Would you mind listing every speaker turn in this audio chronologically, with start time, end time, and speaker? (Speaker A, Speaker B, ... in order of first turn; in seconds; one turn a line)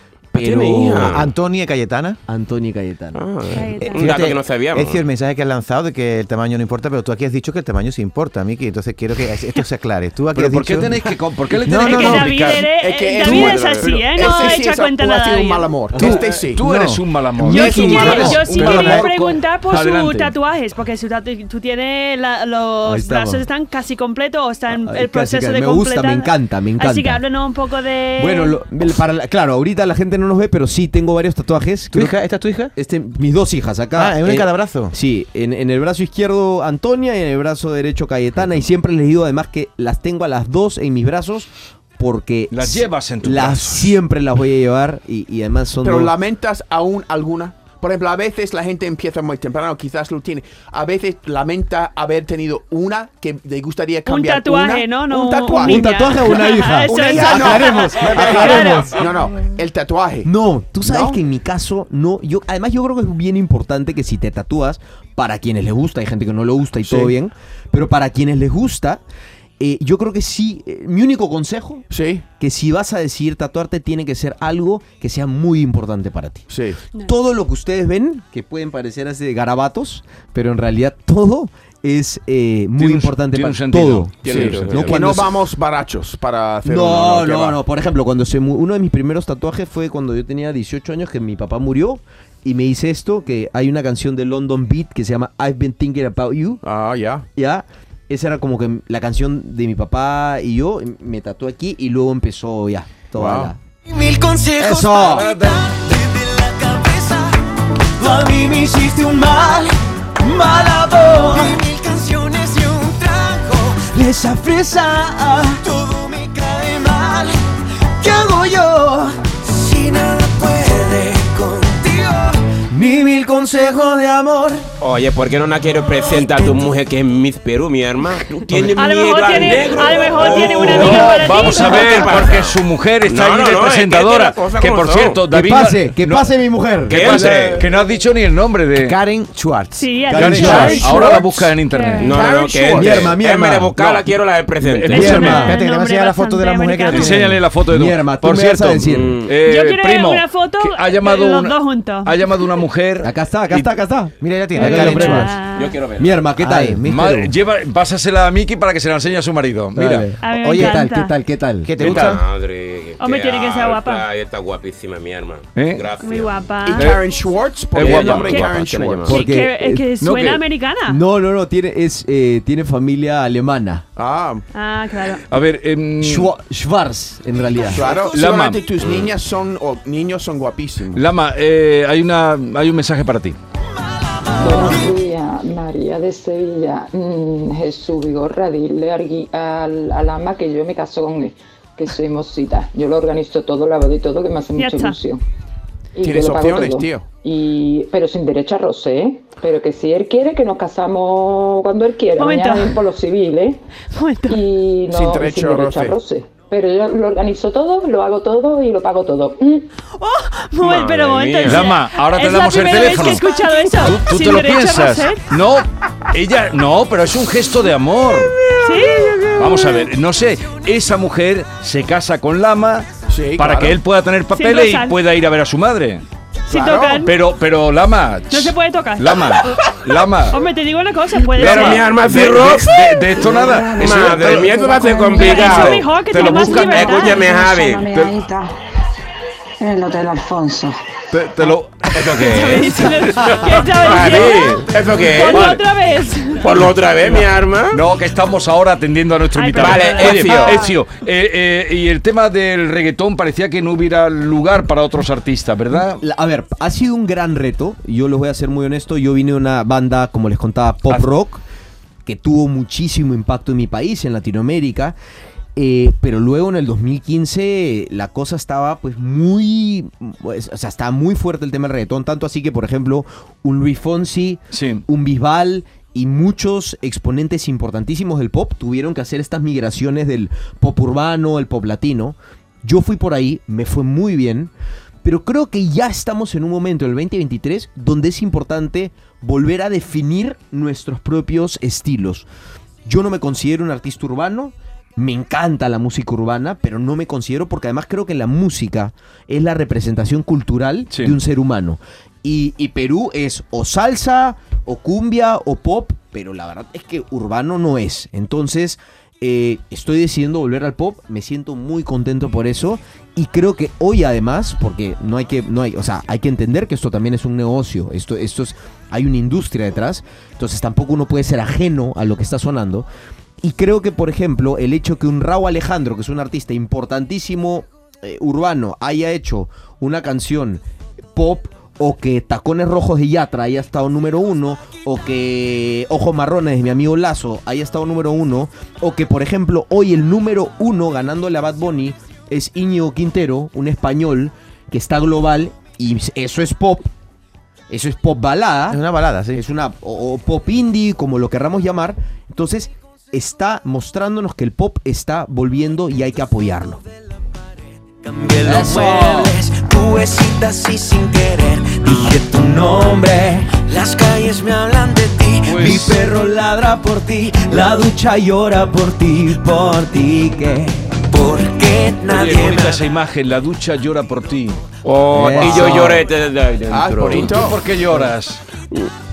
Speaker A: 0.3-1.3
Speaker B: 0.3-1.3
Speaker C: 1.0-2.2
Speaker A: 2.3-3.2
Speaker B: 3.1-5.1
Speaker D: 3.5-4.1
Speaker C: 3.8-12.2
Speaker E: 10.3-12.7
Speaker D: 11.8-16.1
Speaker F: 12.4-16.7
Speaker E: 13.2-13.7
Speaker E: 14.3-14.5
Speaker E: 15.9-20.3
Speaker A: 17.4-17.8
Speaker D: 17.5-28.6
Speaker F: 17.5-19.0
Speaker A: 22.8-23.5
Speaker A: 24.7-27.2
Speaker A: 28.2-32.2
Speaker C: 31.9-32.7
Speaker A: 32.8-46.1
Speaker C: 34.0-34.9
Speaker E: 42.5-44.0
Speaker F: 45.8-56.2
Speaker D: 54.1-59.1
Speaker A: 55.6-59.1
Speaker F: 56.9-60.3
Speaker A: 60.2-69.0
Speaker F: 60.8-61.2
Speaker F: 66.8-67.1
Speaker A: 69.6-71.9
Speaker F: 71.9-72.2
Speaker A: 72.4-76.5
Speaker F: 76.5-76.8
Speaker A: 77.0-85.3
Speaker E: 82.8-85.2
Speaker F: 84.2-87.6
Speaker B: 84.2-85.0
Speaker A: 86.7-96.6
Speaker F: 96.6-97.2
Speaker A: 97.3-103.6
Speaker F: 103.2-103.5
Speaker G: 103.9-107.3
Speaker A: 104.6-105.3
Speaker E: 105.0-105.6
Speaker A: 108.0-111.6
Speaker G: 108.0-108.7
Speaker G: 110.6-113.9
Speaker A: 113.9-115.7
Speaker G: 115.6-117.3
Speaker G: 118.0-118.5
Speaker A: 118.0-119.1
Speaker G: 119.3-122.4
Speaker A: 122.7-124.7
Speaker B: 124.8-135.2
Speaker A: 126.1-126.7
Speaker D: 128.7-132.1
Speaker E: 130.1-136.3
Speaker A: 135.3-137.1
Speaker E: 136.9-139.0
Speaker B: 136.9-137.7
Speaker C: 138.8-140.8
Speaker D: 139.7-142.2
Speaker A: 140.1-141.2
Speaker E: 140.1-142.2
Speaker B: 142.0-145.2
Speaker F: 142.1-143.1
Speaker A: 142.7-143.8
Speaker E: 143.8-144.1
Speaker E: 144.6-145.5
Speaker D: 144.8-147.2
Speaker A: 144.9-145.6
Speaker C: 145.2-147.4
Speaker E: 146.8-153.7
Speaker A: 147.7-149.2
Speaker B: 148.9-149.4
Speaker D: 149.4-152.7
Speaker A: 153.0-155.4
Speaker C: 154.2-155.3
Speaker D: 154.5-155.8
Speaker B: 155.5-156.3
Speaker A: 156.0-157.3
Speaker E: 156.6-160.1
Speaker A: 159.8-161.8
Speaker D: 160.2-161.1
Speaker C: 160.4-160.7
Speaker C: 161.6-162.2
Speaker E: 161.8-162.1
Speaker B: 161.8-166.4
Speaker D: 163.0-164.1
Speaker E: 165.6-165.9
Speaker D: 166.0-166.9
Speaker F: 166.7-169.1
Speaker E: 166.8-167.0
Speaker E: 167.7-168.6
Speaker B: 167.8-169.2
Speaker A: 169.1-169.9
Speaker D: 169.1-171.0
Speaker E: 170.0-170.4
Speaker A: 170.9-173.8
Speaker F: 174.0-174.4
Speaker D: 174.5-175.2
Speaker E: 175.3-176.3
Speaker A: 176.0-178.2
Speaker F: 177.7-181.1
Speaker E: 178.1-178.6
Speaker B: 178.8-179.1
Speaker E: 180.9-183.4
Speaker H: 184.4-195.2
Speaker D: 194.6-195.0
Speaker H: 195.9-203.6
Speaker F: 196.0-197.1
Speaker D: 202.2-202.8
Speaker D: 203.9-204.4
Speaker H: 204.3-209.7
Speaker F: 204.9-206.0
Speaker D: 209.9-215.2
Speaker B: 210.6-211.7
Speaker E: 211.5-218.3
Speaker D: 218.6-219.4
Speaker E: 219.3-226.1
Speaker F: 223.1-223.8
Speaker D: 224.3-225.0
Speaker F: 226.5-227.1
Speaker D: 226.5-227.2
Speaker E: 227.1-230.4
Speaker D: 228.3-229.3
Speaker D: 230.3-232.0
Speaker B: 231.4-237.9
Speaker E: 231.4-237.2
Speaker H: 234.5-235.2
Speaker D: 234.8-237.2
Speaker H: 237.2-238.4
Speaker E: 237.9-238.2
Speaker H: 239.6-240.4
Speaker E: 241.1-243.4
Speaker B: 241.9-242.8
Speaker D: 242.2-246.6
Speaker B: 243.5-245.5
Speaker E: 244.1-244.6
Speaker E: 245.2-245.6
Speaker B: 246.4-247.8
Speaker E: 247.1-256.0
Speaker D: 249.3-250.6
Speaker B: 249.6-250.7
Speaker A: 256.0-261.4
Speaker A: 262.1-265.0
Speaker A: 265.6-284.5
Speaker E: 274.5-274.8
Speaker A: 285.0-292.3
Speaker A: 292.9-322.9
Speaker A: 323.4-330.6
Speaker A: 331.1-346.9
Speaker A: 347.7-348.8
Speaker C: 348.7-349.4
Speaker A: 349.3-356.8
Speaker G: 358.1-365.9
Speaker A: 358.4-359.4
Speaker A: 362.1-363.4
Speaker E: 365.4-366.0
Speaker A: 365.6-371.0
Speaker G: 371.1-372.9
Speaker E: 372.1-374.6
Speaker B: 374.8-377.4
Speaker A: 375.1-376.0
Speaker F: 375.3-376.0
Speaker E: 375.3-375.9
Speaker F: 376.7-377.7
Speaker E: 377.1-378.4